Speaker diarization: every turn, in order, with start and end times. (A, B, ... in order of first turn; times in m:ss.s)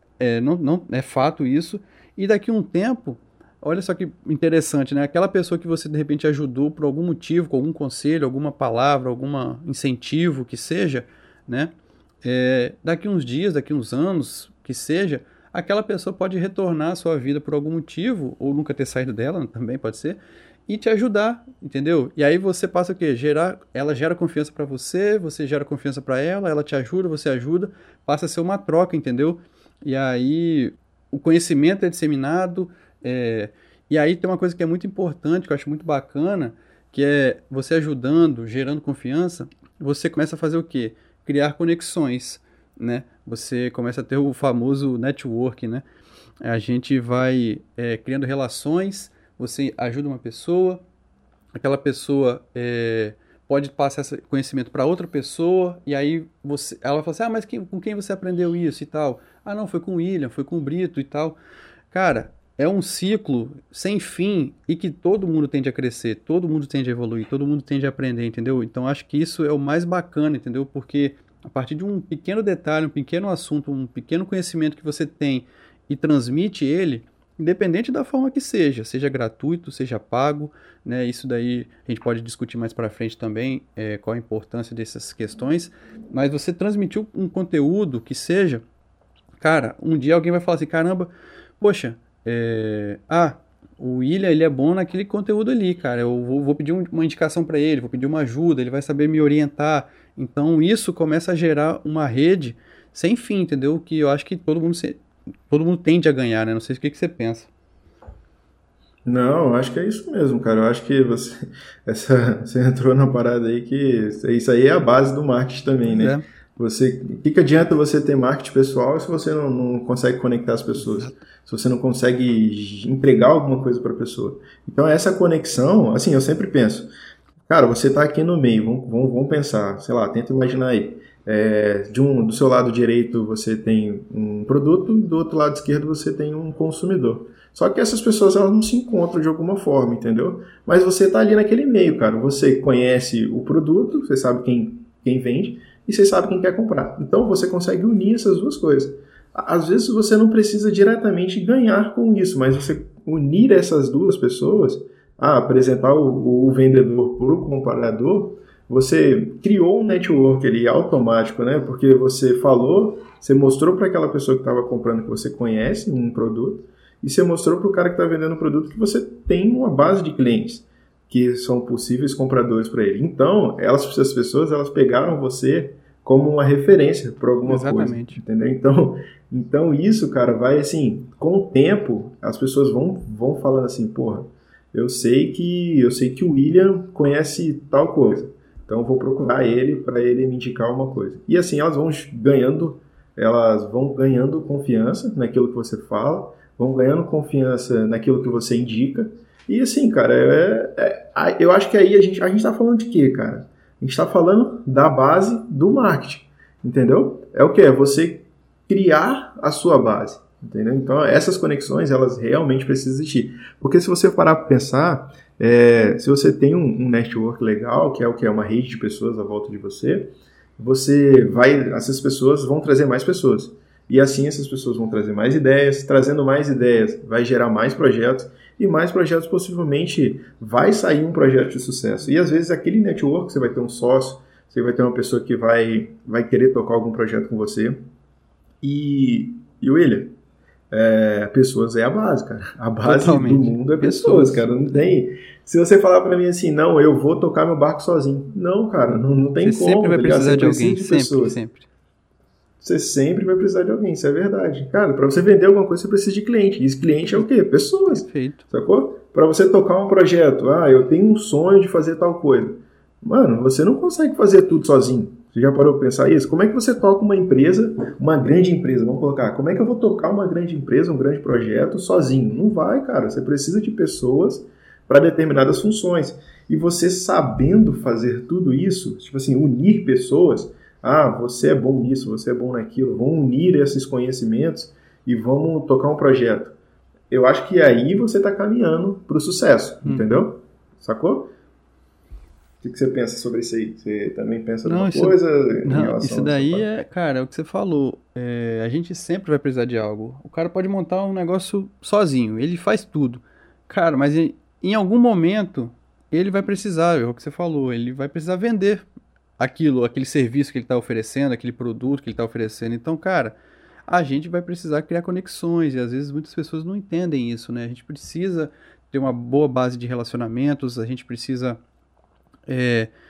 0:00.2-0:11.7 A
0:12.2-0:45.8 A
0:46.4-0:50.8 A
0:51.6-1:01.4 A
1:01.9-1:28.6 A
1:29.4-1:47.5 A
1:49.0-2:06.9 B
1:55.8-1:56.2 A
2:00.8-2:01.2 A
2:07.5-3:57.8 B
2:57.4-2:58.2 A
3:58.6-4:00.1 B
4:00.7-4:11.4 B
4:02.8-4:04.8 A
4:09.4-4:11.7 A
4:12.6-4:46.6 B
4:17.8-4:18.4 A
4:47.1-4:51.3 B
4:49.8-4:50.2 A
4:52.6-4:56.7 B
4:54.6-5:08.8 A
5:09.4-5:13.4 A
5:13.9-5:21.6 A
5:22.5-5:22.9 A